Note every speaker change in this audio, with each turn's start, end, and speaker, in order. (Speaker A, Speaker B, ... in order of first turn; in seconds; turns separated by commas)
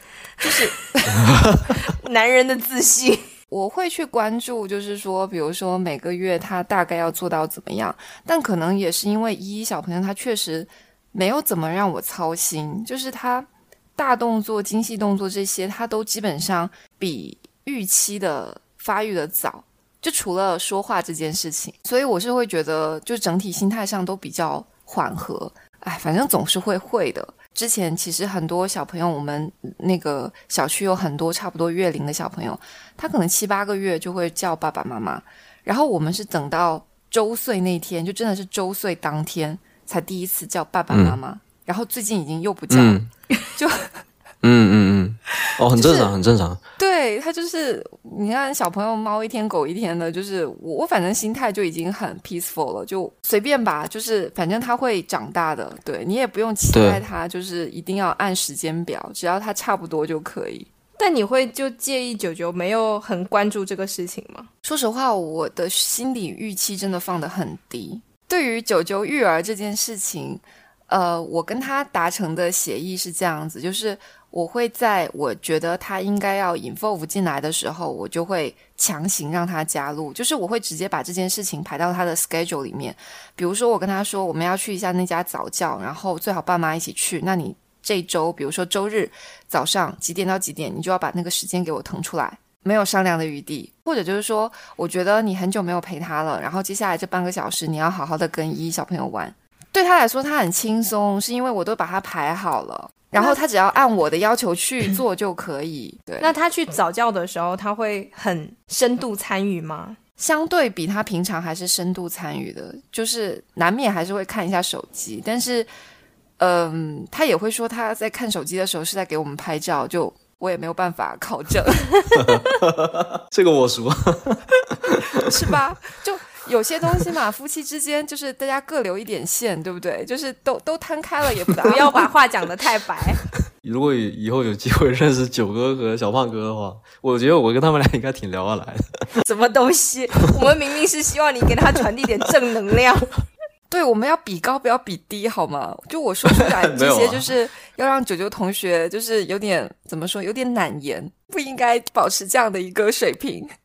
Speaker A: 0.4-1.2, Speaker B: 1.1-1.7, Speaker C: 1.8-3.2, Speaker A: 3.5-43.0, Speaker B: 40.9-41.2, Speaker B: 42.7-43.1, Speaker A: 43.5-44.0, Speaker B: 44.4-46.6, Speaker A: 45.7-46.1, Speaker A: 46.8-60.7, Speaker B: 56.7-57.0, Speaker C: 61.0-64.5, Speaker A: 64.6-106.3, Speaker C: 103.2-103.4, Speaker C: 106.2-110.0, Speaker A: 110.2-115.7, Speaker A: 116.4-122.4, Speaker B: 122.2-125.2, Speaker A: 125.1-132.1, Speaker C: 131.6-133.2, Speaker B: 133.6-139.0, Speaker C: 139.2-143.1, Speaker A: 143.7-153.5, Speaker B: 146.3-147.3